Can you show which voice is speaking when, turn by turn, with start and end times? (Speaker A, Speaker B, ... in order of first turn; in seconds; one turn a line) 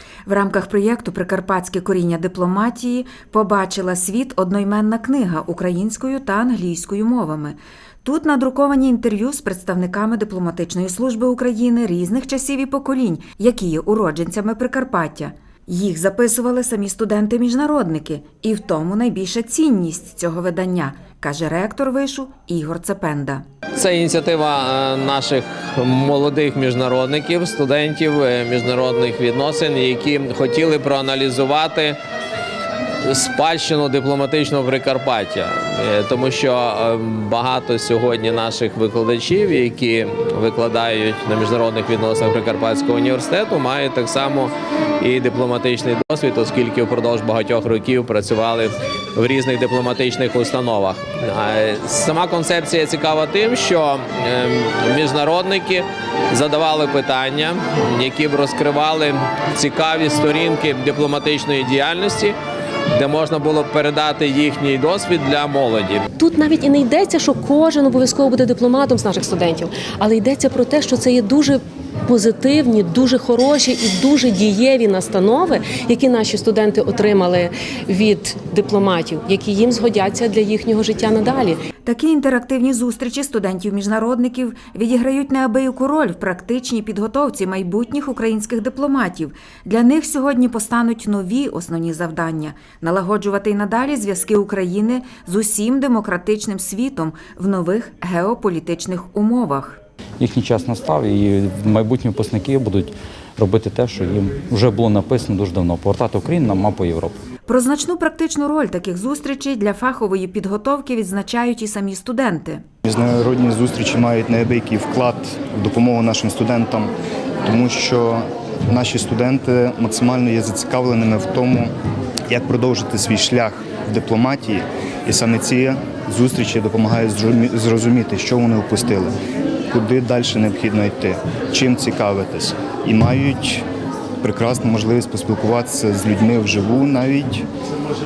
Speaker A: 0.2-23.4
Speaker B: 23.8-32.0
Speaker B: 33.0-62.4
Speaker B: 63.0-66.0
Speaker C: 66.2-81.6
Speaker A: 81.8-99.8
Speaker D: 100.2-107.2
Speaker A: 107.5-112.7
Speaker E: 112.8-116.9
Speaker E: 117.4-121.7
Speaker E: 122.3-129.1
Speaker E: 129.7-133.7
Speaker E: 134.2-137.4